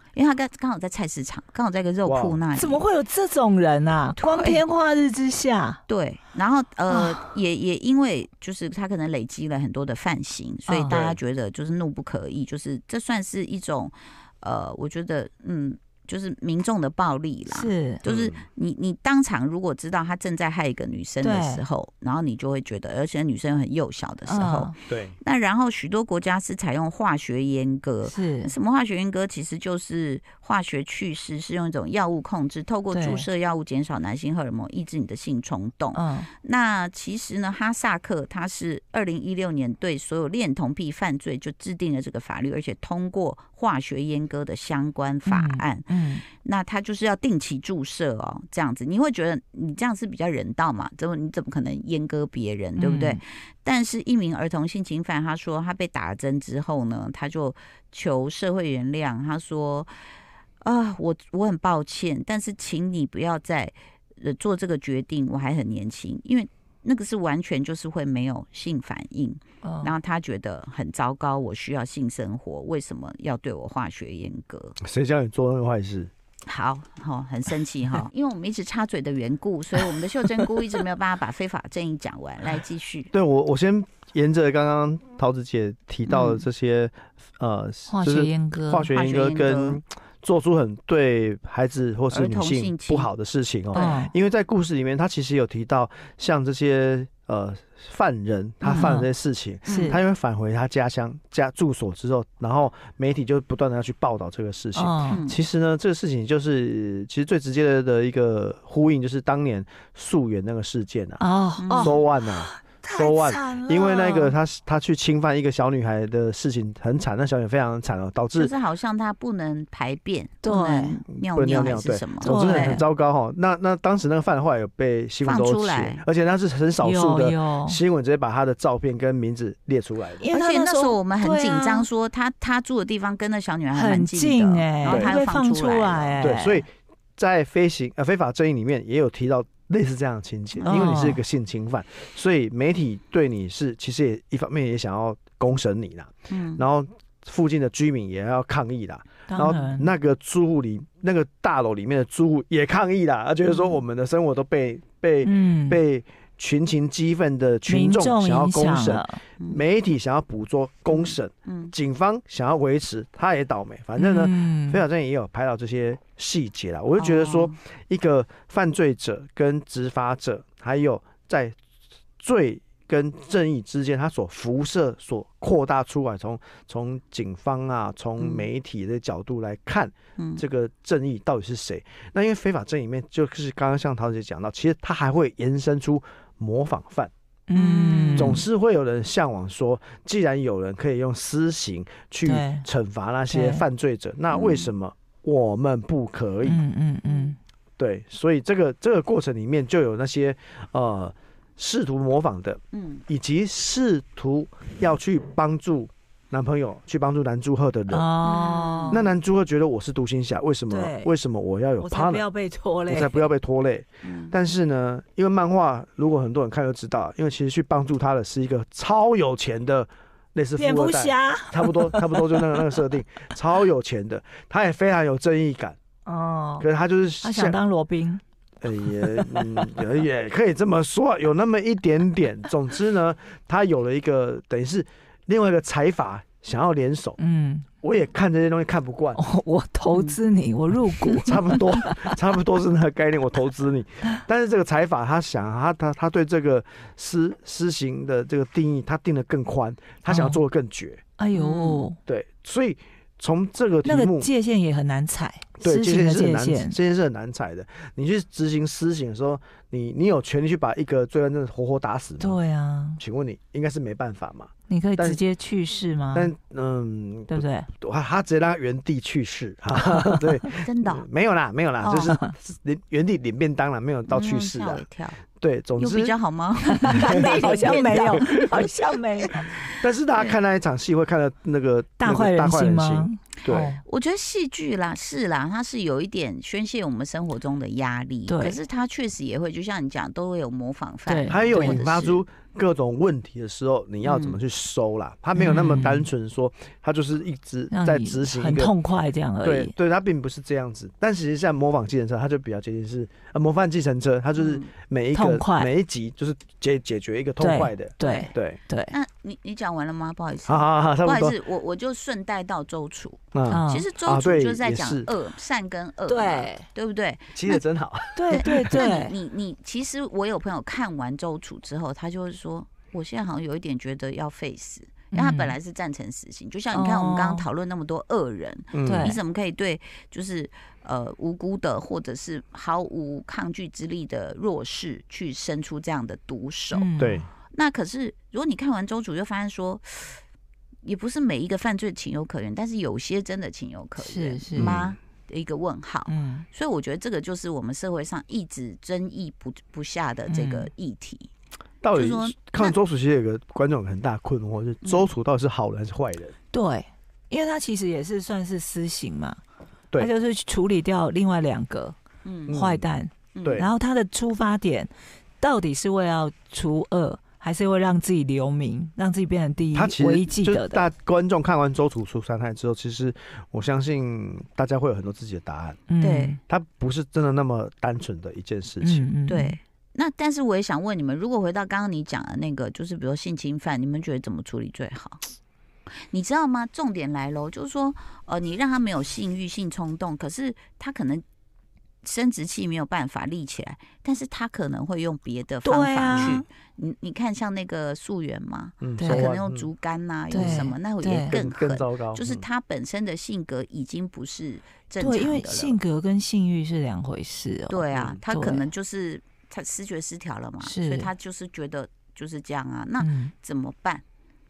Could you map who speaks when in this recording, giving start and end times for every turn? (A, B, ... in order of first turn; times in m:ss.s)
0:00.1-0:02.8 A
0:02.1-0:02.4 B
0:02.5-0:05.8 C
0:04.2-0:04.6 A
0:05.9-0:59.9 A
0:06.9-0:07.2 C
0:10.7-0:10.9 C
0:10.9-0:11.2 B
0:17.5-0:18.0 C
0:18.0-0:18.4 B
0:21.2-0:21.6 C
0:24.3-0:24.8 C
0:24.9-0:25.2 B
0:28.0-0:28.5 C
0:32.9-0:33.3 C
0:35.9-0:36.3 C
0:45.3-0:46.2 C
0:52.8-0:53.2 C
1:00.6-1:14.8 A
1:09.6-1:09.9 C
1:14.8-1:16.1 B
1:16.5-1:23.1 A
1:23.1-1:51.2 B
1:26.1-1:26.4 A
1:27.9-1:28.9 C
1:28.9-1:29.8 A
1:32.1-1:33.1 A
1:33.8-1:34.1 C
1:38.6-1:39.1 C
1:39.7-1:40.0 C
1:39.7-1:40.0 A
1:44.8-1:45.2 C
1:45.1-1:45.4 A
1:51.2-1:54.4 C
1:51.6-1:52.0 A
1:51.8-1:58.5 B
1:58.4-2:02.8 A
2:00.4-2:01.0 C
2:01.1-2:10.2 B
2:02.2-2:02.8 C
2:05.2-2:06.0 A
2:06.8-2:07.8 C
2:10.2-2:11.9 C
2:10.3-2:16.2 A
2:13.7-2:16.6 C
2:14.9-2:15.2 B
2:16.2-2:51.6 B
2:20.6-2:20.9 A
2:20.6-2:21.2 C
2:26.3-2:26.6 A
2:29.3-2:29.9 C
2:33.5-2:33.8 A
2:35.2-2:35.8 C
2:37.7-2:39.2 C
2:40.9-2:41.7 A
2:44.0-2:44.8 C
2:47.0-2:47.6 A
2:52.2-3:07.1 B
3:00.2-3:00.4 A
3:07.5-3:08.4 C
3:07.5-3:08.4 A
3:08.2-3:16.6 B
3:12.2-3:12.7 C
3:13.3-3:13.6 C
3:14.3-3:14.7 A
3:16.4-3:17.4 C
3:17.1-3:17.3 A
3:17.8-3:28.1 B
3:22.7-3:23.0 A
3:27.9-3:29.0 C
3:28.2-3:29.0 A
3:28.9-3:32.2 B
3:30.7-3:31.1 C
3:31.8-3:33.3 C
3:32.9-3:45.8 B
3:34.0-3:34.4 A
3:40.6-3:42.7 C
3:46.1-3:46.7 C
3:46.6-3:47.6 B
3:47.2-3:48.2 C
3:48.6-3:57.2 B
3:48.9-3:49.7 C
3:57.2-3:57.7 C
3:57.8-3:59.2 B
3:59.2-4:02.2 C
3:59.9-4:00.2 A
4:01.2-4:11.0 B
4:10.1-4:10.4 C
4:11.2-4:12.0 C
4:11.3-4:11.9 A
4:12.1-4:14.3 B
4:13.8-4:16.8 C
4:15.6-4:22.4 B
4:22.2-4:23.0 C
4:23.0-4:25.2 B
4:24.7-4:26.3 C
4:26.1-4:34.9 B
4:27.3-4:27.7 C
4:30.6-4:31.1 A
4:31.9-4:32.3 C
4:34.1-4:35.2 A
4:35.4-4:36.1 B
4:35.8-4:38.6 A
4:36.7-4:39.5 C
4:36.9-4:38.6 B
4:39.6-4:40.4 A
4:39.8-4:43.7 B
4:42.0-4:43.8 C
4:43.8-4:52.2 A
4:48.3-4:48.6 C
4:51.1-4:51.8 C
4:51.3-4:58.7 B
4:54.0-4:54.4 A
4:55.4-4:56.1 C
4:57.7-4:59.7 C
4:59.4-5:08.6 B
5:04.4-5:04.7 A
5:05.1-5:05.7 C
5:07.4-5:08.9 C
5:08.0-5:08.3 A
5:08.9-5:17.6 A
5:10.5-5:11.4 B
5:13.3-5:15.1 B
5:13.5-5:13.9 C
5:16.1-5:16.7 C
5:17.4-5:18.9 B
5:18.2-5:19.1 C
5:18.3-5:36.9 A
5:25.1-5:25.5 C
5:26.7-5:27.4 C
5:28.7-5:29.1 B
5:28.8-5:29.2 C
5:36.7-5:37.3 C
5:37.0-5:37.3 B
5:37.5-5:40.2 A
5:40.8-5:51.3 A
5:44.0-5:44.8 C
5:44.6-5:44.9 B
5:46.1-5:46.5 C
5:50.3-5:50.7 C
5:51.8-5:56.4 B
5:51.9-5:52.8 A
5:54.8-5:55.1 A
5:56.5-5:59.4 C
6:00.0-6:02.0 C
6:02.2-6:02.6 A
6:02.5-6:02.9 B
6:02.5-6:04.9 C
6:03.3-6:03.6 A
6:03.4-6:03.7 B
6:05.4-6:10.9 C
6:09.7-6:15.8 B
6:15.9-6:16.4 C
6:16.0-6:16.4 A
6:16.5-6:19.1 B
6:18.8-6:19.6 C
6:19.3-6:25.2 A
6:26.1-6:31.2 A
6:32.0-6:45.8 A
6:35.6-6:36.4 C
6:38.8-6:39.7 B
6:39.0-6:39.3 C
6:40.3-6:41.3 C
6:40.4-6:40.7 B
6:41.3-6:42.4 B
6:45.0-6:48.7 C
6:47.7-6:54.0 A
6:47.9-6:48.2 B
6:50.6-6:51.1 C
6:53.0-6:53.3 C